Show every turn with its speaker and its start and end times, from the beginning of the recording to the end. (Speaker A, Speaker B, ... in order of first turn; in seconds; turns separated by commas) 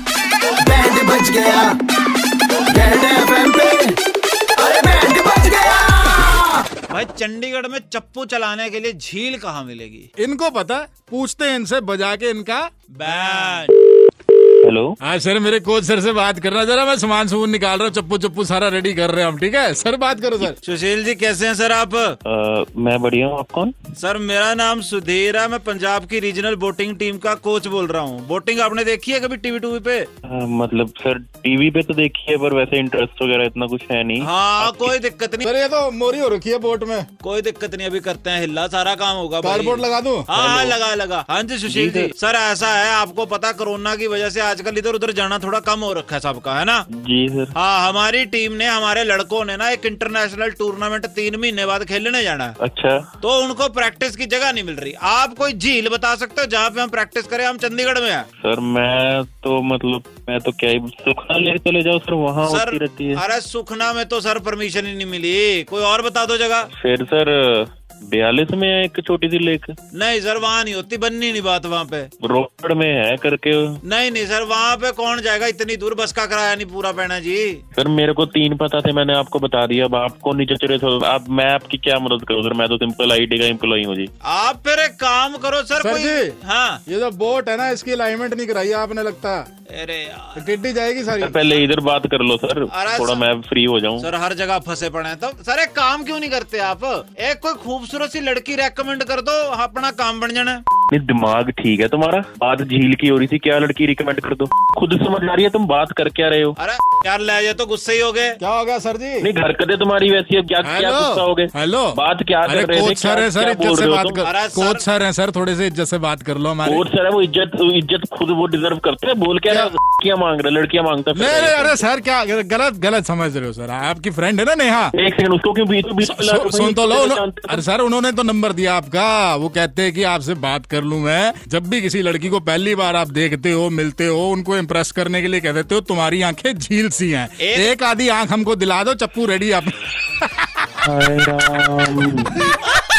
Speaker A: 0.6-1.7, Speaker A: 2.7-4.0, Speaker A: 4.5-6.6, Speaker B: 6.9-10.1, Speaker C: 10.2-13.6, Speaker B: 12.9-13.7, Speaker D: 14.6-14.9, Speaker C: 15.0-20.6, Speaker B: 20.4-22.1, Speaker D: 22.2-23.7, Speaker B: 24.0-30.1, Speaker D: 30.3-35.0, Speaker B: 34.2-35.5, Speaker C: 35.4-37.1, Speaker B: 37.2-46.8, Speaker C: 39.4-40.3, Speaker D: 40.3-40.8, Speaker D: 41.7-42.1, Speaker D: 46.9-47.5, Speaker B: 47.5-52.5, Speaker D: 52.6-53.0, Speaker B: 53.2-58.3, Speaker D: 58.4-63.2, Speaker B: 62.4-66.7, Speaker D: 66.8-69.7, Speaker B: 69.9-72.1, Speaker D: 72.2-73.8, Speaker B: 73.8-77.6, Speaker D: 77.7-84.1, Speaker B: 84.2-86.8, Speaker C: 85.8-89.4, Speaker B: 89.7-90.5, Speaker C: 90.3-91.4, Speaker D: 91.2-94.1, Speaker B: 92.7-93.3, Speaker B: 94.0-100.6, Speaker D: 100.9-106.5, Speaker B: 106.6-108.4, Speaker C: 108.4-109.3, Speaker D: 109.2-114.2, Speaker C: 110.6-116.8, Speaker B: 114.2-114.8, Speaker D: 116.6-121.8, Speaker C: 121.1-124.9, Speaker D: 125.0-127.6, Speaker C: 126.0-139.8, Speaker B: 137.4-137.7, Speaker D: 140.8-142.3